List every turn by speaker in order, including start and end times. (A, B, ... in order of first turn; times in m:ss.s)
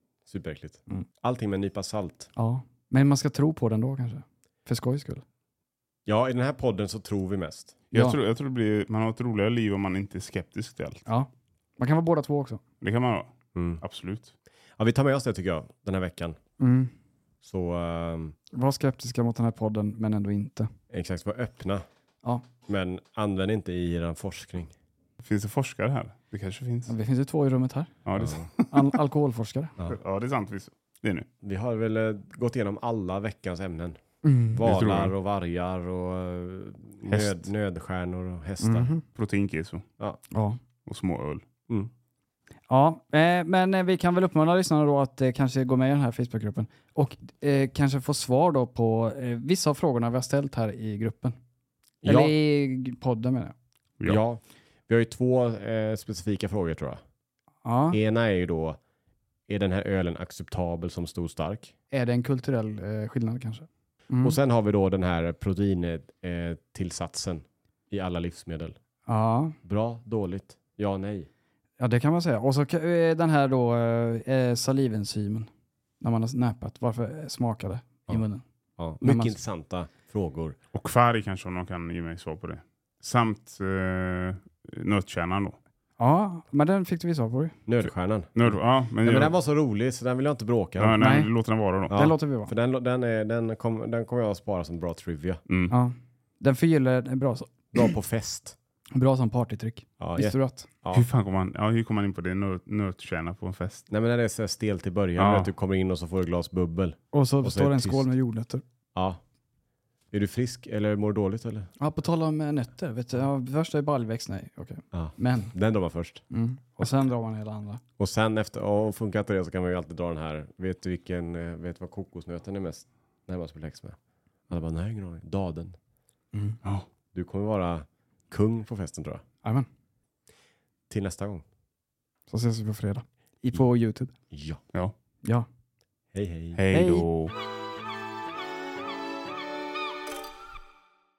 0:00.2-0:02.3 A
0:02.4-0:05.2 B
0:06.0-0:07.7 A
0:07.9-0:11.0 C
0:07.9-0:08.2 B
0:11.1-0:12.6 B
0:12.8-0:14.3 C
0:13.5-0:13.8 A
0:14.8-0:16.4 A
0:16.6-0:16.9 B
0:17.4-0:18.4 A
0:18.5-0:20.7 B
0:20.9-0:21.8 A
0:22.6-0:24.7 A
0:25.2-0:26.9 C
0:26.9-0:27.9 B
0:28.0-0:29.0 C
0:28.7-0:29.7 B
0:29.9-0:31.3 C
0:31.4-0:34.0 A
0:34.2-0:34.6 B
0:34.5-0:38.9 A
0:34.6-0:35.1 C
0:37.1-0:37.5 C
0:38.6-0:39.0 B
0:39.1-0:39.8 C
0:40.3-0:40.6 B
0:40.8-0:41.4 C
0:42.7-0:51.4 B
0:52.0-0:52.4 A
0:52.0-0:53.5 B
0:54.0-0:57.0 A
0:57.6-0:58.0 B
0:57.9-0:58.8 A
0:59.5-1:01.7 A
1:01.9-1:04.4 B
1:04.2-1:08.8 A
1:09.0-1:09.6 B
1:09.6-1:11.3 A
1:11.8-1:15.5 B
1:16.0-1:18.4 B
1:18.8-1:20.6 A
1:19.0-1:19.4 B
1:20.7-1:25.6 C
1:26.0-1:27.6 B
1:27.7-1:31.0 A
1:27.8-1:29.3 C
1:30.8-1:32.0 C
1:31.0-1:31.3 B
1:31.9-1:35.4 A
1:31.9-1:32.5 B
1:35.5-1:35.7 C
1:35.7-1:37.5 B
1:37.7-1:38.6 A
1:38.9-1:40.7 B
1:40.0-1:41.0 A
1:40.9-1:43.8 C
1:43.9-1:48.1 A
1:45.2-1:45.5 C
1:47.1-1:48.6 B
1:48.9-1:49.2 A
1:50.1-1:51.7 A
1:51.8-1:55.5 B
1:54.9-1:56.2 A
1:56.3-1:57.8 B
1:58.0-2:04.0 A
2:04.5-2:05.8 A
2:06.3-2:06.6 B
2:07.1-2:09.2 A
2:10.9-2:11.4 A
2:12.3-2:14.1 B
2:14.3-2:14.6 A
2:16.1-2:16.6 A
2:16.5-2:17.3 C
2:16.7-2:17.0 B